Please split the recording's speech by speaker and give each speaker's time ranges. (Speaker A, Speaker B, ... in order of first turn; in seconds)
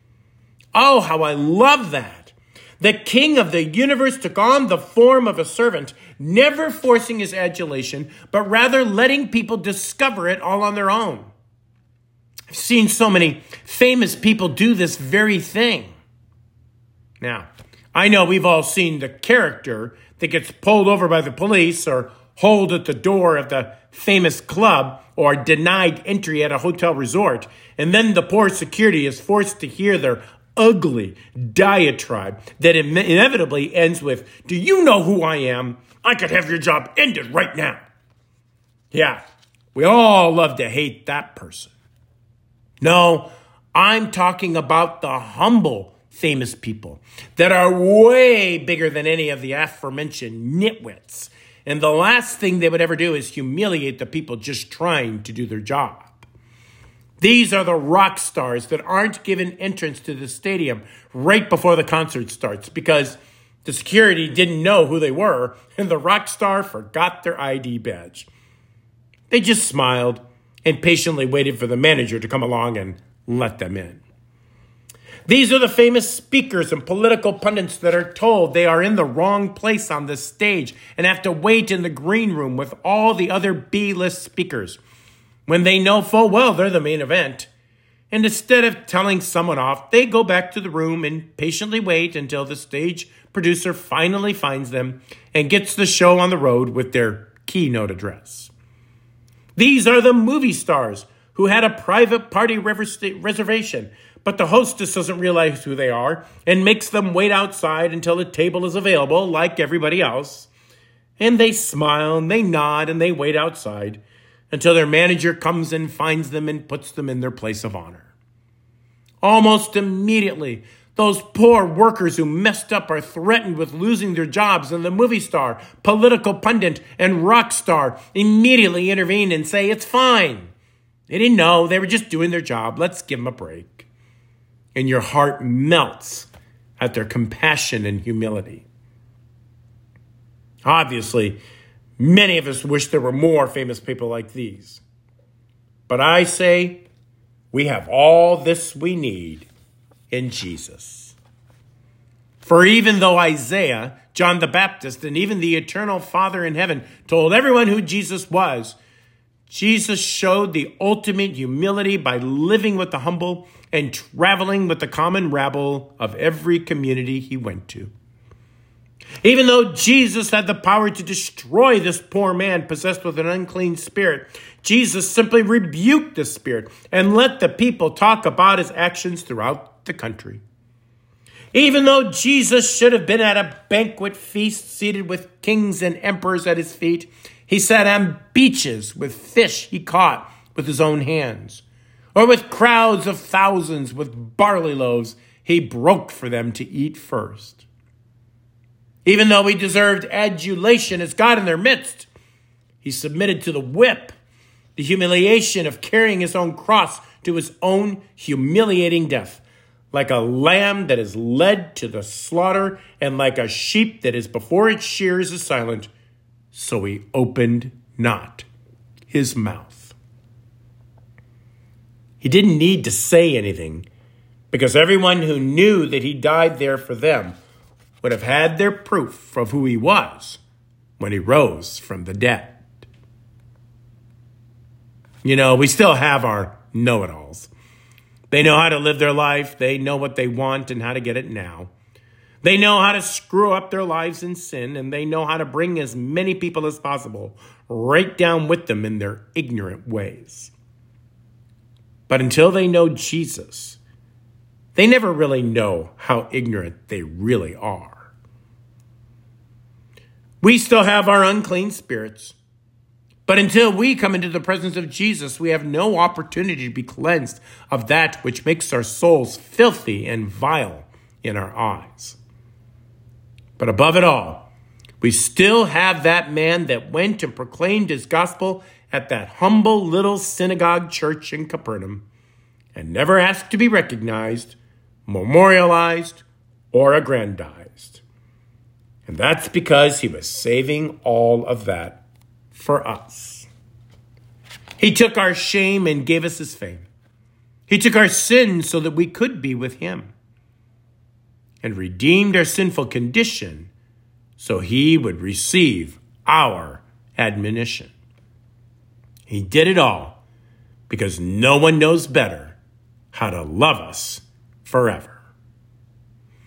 Speaker A: 0.7-11.3, 12.5-15.9, 17.2-37.8, 38.9-39.2, 39.7-41.7, 42.8-56.3, 57.2-68.3, 69.3-74.0, 75.3-84.8, 85.5-87.5, 88.1-98.5, 99.6-110.5, 111.2-118.1, 119.2-130.5, 131.1-133.9, 134.8-138.7, 140.6-141.4, 142.0-144.8, 145.9-146.8, 147.5-149.5, 150.1-151.2, 152.4-158.8, 159.5-167.9, 169.2-180.4, 181.5-191.6, 192.2-197.7, 199.1-202.1, 202.8-204.2, 204.8-215.9, 216.5-218.5, 219.1-220.0, 222.2-223.9, 224.5-227.4, 228.0-230.4, 231.0-232.6, 235.2-237.5, 238.3-241.7, 242.4-250.5, 252.1-253.8, 254.8-258.1, 260.4-262.4, 263.3-272.2, 273.6-274.5, 275.0-282.1, 282.8-288.0, 289.1-293.5, 294.8-296.9, 297.7-300.1, 301.6-303.7, 304.4-307.9, 309.3-310.2, 310.9-312.6, 313.1-315.2